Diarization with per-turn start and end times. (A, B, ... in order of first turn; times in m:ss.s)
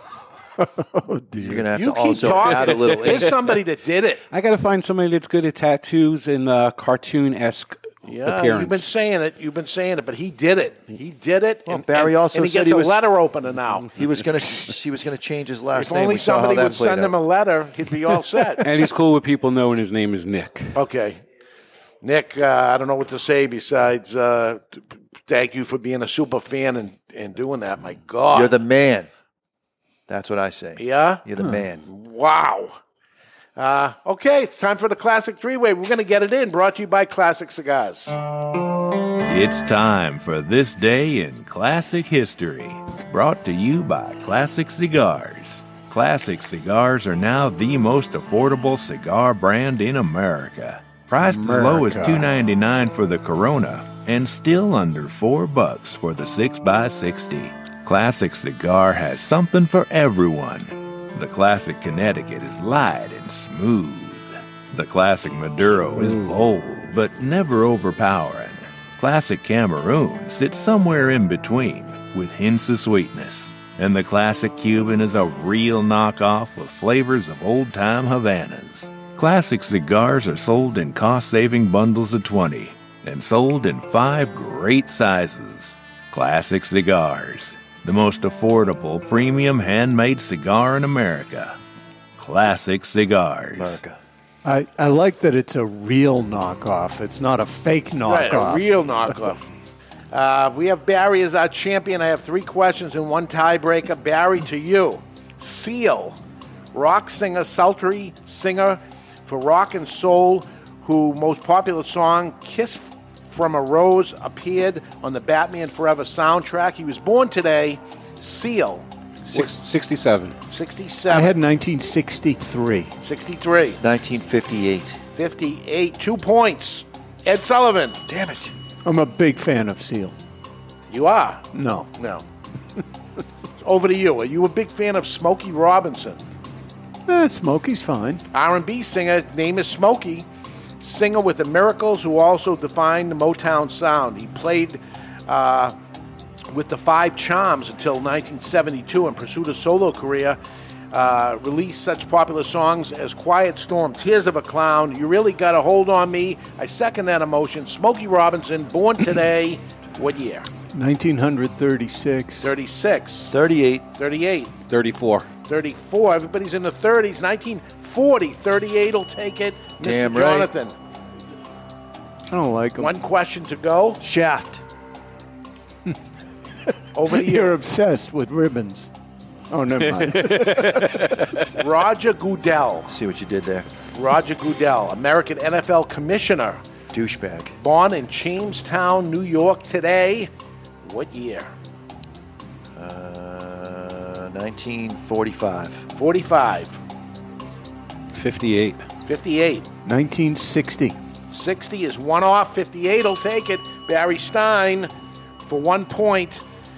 0:00.6-0:01.7 A
0:01.4-0:03.3 B
0:01.7-0:04.2 C
0:04.3-0:08.9 D
0:08.0-0:13.9 C
0:11.7-0:13.0 B
0:13.9-0:17.2 B
0:15.7-0:18.6 C
0:18.6-0:20.8 D
0:20.7-0:21.2 C
0:22.0-0:28.5 C
0:28.3-0:29.1 B
0:30.1-0:31.8 B
0:30.8-0:31.2 C
0:31.4-0:31.6 A
0:31.8-0:32.8 C
0:33.6-0:38.2 C
0:39.2-1:31.6 E
0:51.2-0:52.3 A
1:06.0-1:06.4 D
1:32.2-1:33.8 E
1:33.6-1:34.0 B
1:34.4-1:39.1 A
1:38.0-1:39.4 C
1:40.1-1:46.2 C
1:46.7-1:59.5 C
1:59.3-2:00.4 D
2:00.5-2:01.4 C
2:01.1-2:03.0 A
2:03.0-2:03.8 C
2:03.8-2:05.0 B
2:05.1-2:08.0 C
2:08.0-2:08.5 B
2:08.8-2:10.2 A
2:10.9-2:12.2 C
2:11.5-2:11.9 A
2:13.6-2:16.2 C
2:17.1-2:18.2 A
2:18.3-2:20.3 C
2:20.8-2:25.8 C
2:26.5-2:30.4 C
2:30.9-2:40.5 C
2:40.7-2:42.5 A
2:42.4-2:43.3 C
2:43.3-2:43.8 B
2:44.0-2:44.5 C
2:44.7-2:45.3 D
2:45.4-2:50.7 C
2:49.8-2:50.5 B
2:52.3-2:52.9 A
2:52.8-2:54.0 C
2:54.0-2:54.6 B
2:56.9-2:57.5 C
2:57.1-2:58.9 A
2:59.5-3:01.1 A
3:00.1-3:01.3 D
3:01.5-3:02.9 C
3:02.9-3:03.7 B
3:03.9-3:06.6 C
3:06.9-3:07.6 B
3:07.6-3:10.3 C
3:10.8-3:11.5 C
3:12.7-3:15.8 B
3:15.9-3:16.8 C
3:18.1-3:18.8 D
3:19.0-3:19.7 C
3:19.8-3:21.0 A
3:21.3-3:24.9 C
3:25.4-3:26.4 C